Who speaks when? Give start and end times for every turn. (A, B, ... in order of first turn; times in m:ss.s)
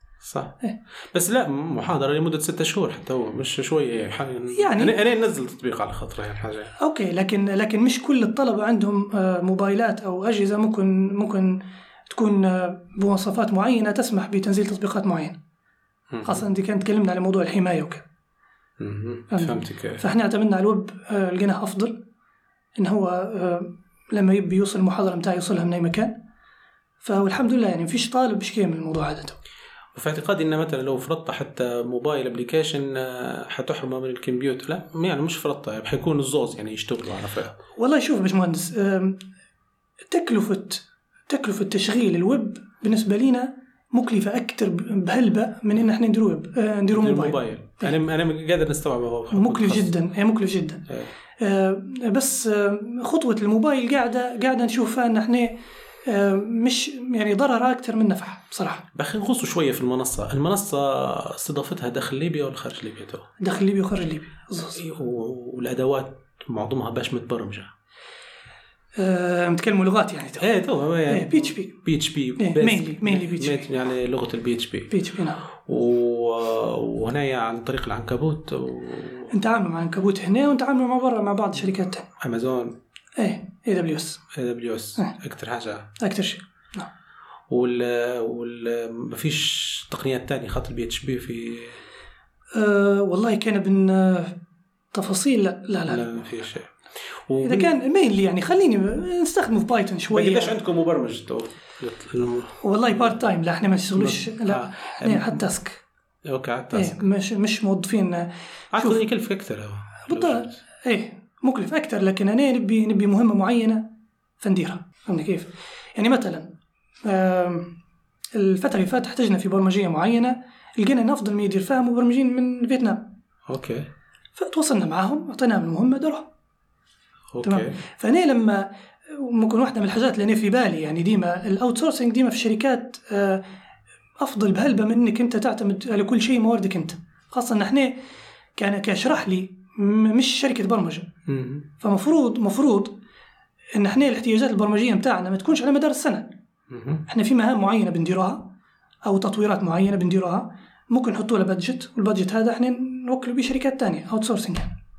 0:00.2-0:00.6 A
0:01.1-0:06.7 A
0:04.5-0:04.9 B
0:06.8-0:15.4 B
0:16.1-0:16.4 A
0:16.2-0:18.0 B
0:18.8-0:20.0 A
0:19.3-0:22.0 B
0:22.8-0:26.2 B
0:27.0-0:29.4 B
0:29.9-0:37.6 A
0:37.8-0:39.2 B
0:40.1-0:47.9 B
0:46.9-0:49.9 A
0:49.3-0:50.8 B
0:51.4-0:58.8 B
0:58.9-1:03.3 A
1:03.4-1:04.8 B
1:04.8-1:07.7 A
1:09.0-1:10.5 B
1:10.4-1:14.9 A
1:11.1-1:11.7 B
1:12.4-1:13.6 B
1:14.9-1:15.4 B
1:15.5-1:19.3 A
1:19.3-1:22.1 B
1:22.2-1:22.8 A
1:23.2-1:24.2 B
1:24.3-1:25.9 A
1:26.0-1:26.9 B
1:27.5-1:31.8 A
1:32.5-1:34.4 B
1:34.9-1:36.0 B
1:35.9-1:37.7 A
1:37.4-1:40.5 B
1:40.1-1:43.2 A
1:42.6-1:45.8 B
1:43.9-1:45.4 A
1:46.3-1:47.0 A
1:46.7-1:49.0 B
1:48.7-1:50.5 A
1:50.1-1:53.8 B
1:54.4-1:56.5 B
1:57.0-1:57.7 B
1:58.3-2:03.0 B
2:03.5-2:03.9 A
2:04.4-2:06.3 B
2:07.3-2:07.8 A
2:07.4-2:13.4 B
2:14.2-2:18.0 B
2:18.6-2:21.1 B
2:21.2-2:21.7 A
2:21.8-2:22.9 B
2:23.8-2:26.3 B
2:26.7-2:27.0 A
2:27.1-2:28.5 B
2:29.0-2:34.7 B